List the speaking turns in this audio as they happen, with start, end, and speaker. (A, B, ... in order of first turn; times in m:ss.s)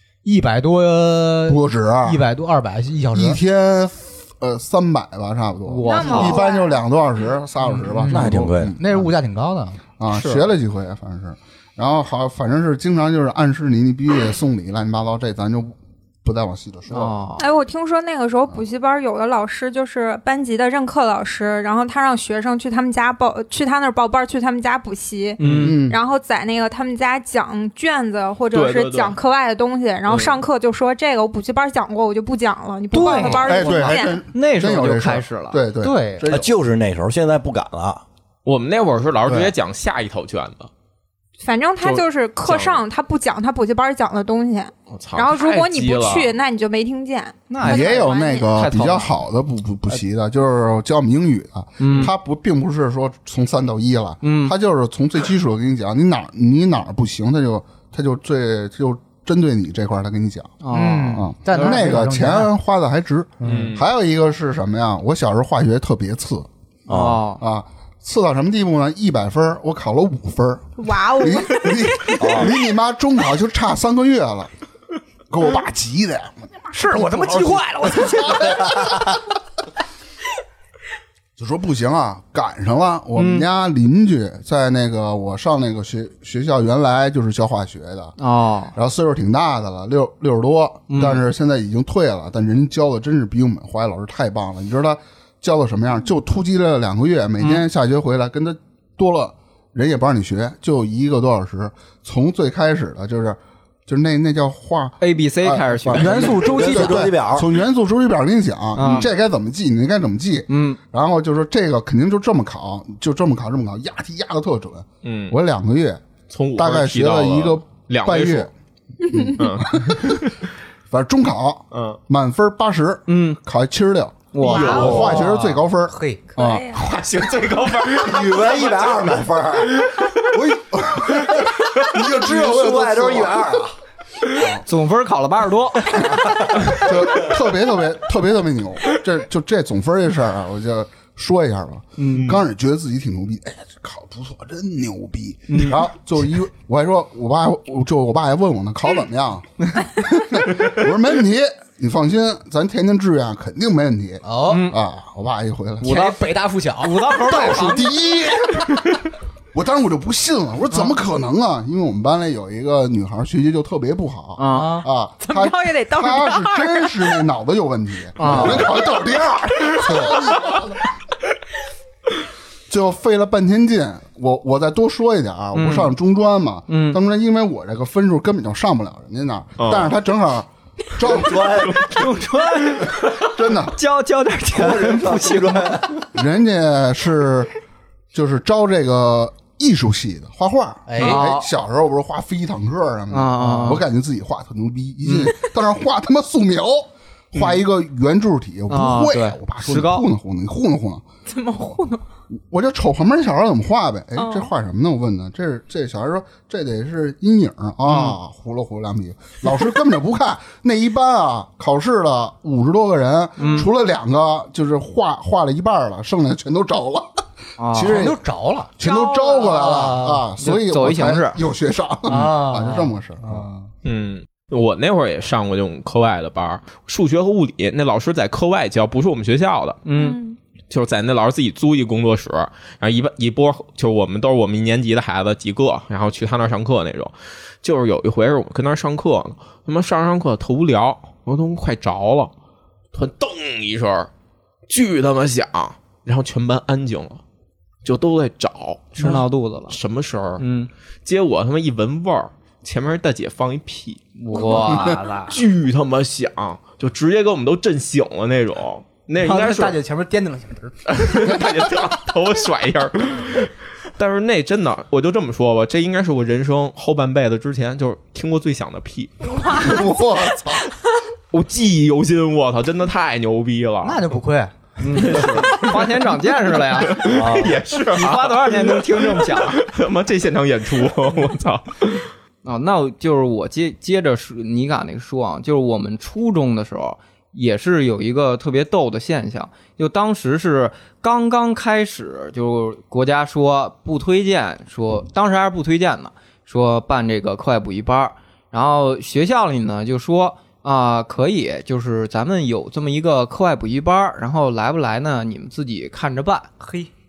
0:00.2-0:03.4 A
0:01.5-0:02.2 B
0:03.1-0:09.1 B
0:05.7-0:06.5 C
0:05.8-0:06.8 D
0:07.8-0:09.8 A
0:08.1-0:08.8 E
0:10.0-0:17.2 B
0:10.1-0:10.5 C
0:16.9-0:17.5 C
0:17.4-0:34.2 D
0:25.4-0:25.8 C
0:25.5-0:26.0 B
0:28.5-0:29.2 F
0:30.1-0:30.4 F
0:32.9-0:35.6 C
0:33.2-0:36.5 B
0:35.8-0:36.3 A
0:36.3-0:38.0 E
0:38.5-0:40.7 F
0:39.2-0:39.5 B
0:41.4-0:48.5 D
0:41.8-0:42.8 F
0:44.9-0:46.4 F
0:47.5-0:49.1 C
0:47.6-1:00.6 B
0:51.8-0:52.1 C
0:54.2-0:54.5 C
1:00.6-1:01.9 C
1:00.7-1:02.5 A
1:01.2-1:06.5 B
1:03.4-1:03.7 A
1:03.4-1:03.8 F
1:06.9-1:07.2 E
1:06.9-1:07.4 C
1:07.4-1:14.5 B
1:10.8-1:12.2 D
1:12.2-1:12.5 E
1:15.3-1:19.0 B
1:16.7-1:19.0 A
1:21.4-1:28.2 B
1:23.2-1:23.5 C
1:28.2-1:28.7 C
1:28.7-1:56.0 B
1:30.9-1:31.2 C
1:45.0-1:46.4 C
1:45.9-1:47.1 A
1:46.3-1:47.5 E
1:48.8-1:49.1 C
1:50.5-1:50.8 C
1:55.0-1:55.4 F
1:56.3-1:58.5 F
1:56.6-1:58.5 B
1:59.1-2:00.3 B
1:59.4-2:00.4 F
2:00.9-2:06.7 B
2:01.7-2:02.0 F
2:03.1-2:03.4 C
2:04.3-2:05.0 C
2:04.4-2:05.0 D
2:04.4-2:05.2 F
2:04.9-2:06.4 A
2:06.4-2:06.9 D
2:06.7-2:10.3 F
2:07.8-2:09.9 E
2:10.3-2:13.7 B
2:11.9-2:13.7 E
2:14.4-2:14.6 B
2:14.6-2:16.0 C
2:16.0-2:36.0 B
2:16.0-2:16.5 E
2:22.0-2:22.3 C
2:25.5-2:25.8 C
2:34.2-2:34.7 A
2:34.5-2:34.8 C
2:35.8-2:37.6 A
2:35.9-2:36.2 C
2:36.8-2:37.9 C
2:37.3-2:39.0 B
2:39.5-2:50.8 B
2:44.4-2:44.8 C
2:44.5-2:44.9 A
2:45.2-2:47.2 D
2:48.2-2:48.7 C
2:48.2-2:48.6 A
2:52.7-3:01.8 B
2:55.6-2:55.9 C
2:56.7-2:57.0 C
2:59.6-2:59.9 F
3:01.1-3:01.9 E
3:01.8-3:05.8 C
3:03.2-3:03.8 B
3:04.5-3:06.1 E
3:06.1-3:07.5 B
3:08.1-3:21.0 B
3:10.9-3:11.2 A
3:11.0-3:11.5 C
3:13.1-3:13.8 C
3:15.0-3:15.3 C
3:18.7-3:20.1 C
3:21.3-3:22.0 D
3:22.4-3:37.2 B
3:24.2-3:24.5 D
3:27.9-3:28.2 C
3:33.4-3:33.7 C
3:37.6-3:38.1 C
3:37.7-3:38.2 B
3:37.8-3:38.8 A
3:38.8-3:43.5 B
3:38.8-3:39.6 D
3:39.5-3:40.3 A
3:40.4-3:41.4 C
3:42.1-3:43.7 A
3:43.8-3:49.8 F
3:49.9-3:50.2 C
3:49.9-3:50.4 D
3:50.7-4:02.3 F
4:02.9-4:04.1 F
4:04.7-4:07.2 F
4:07.8-4:10.4 F
4:09.0-4:09.8 C
4:10.4-4:10.7 C
4:11.0-4:19.8 F
4:14.2-4:15.4 C
4:14.4-4:15.3 A
4:19.2-4:21.3 A
4:20.9-4:29.8 F
4:29.4-4:29.8 D
4:29.5-4:30.7 B
4:31.3-4:34.1 F
4:33.8-4:35.4 A
4:34.8-4:37.3 C
4:35.0-4:35.8 F
4:36.8-4:42.1 F
4:37.0-4:37.6 E
4:37.9-4:39.6 C
4:42.4-5:06.5 C
5:06.6-5:06.9 A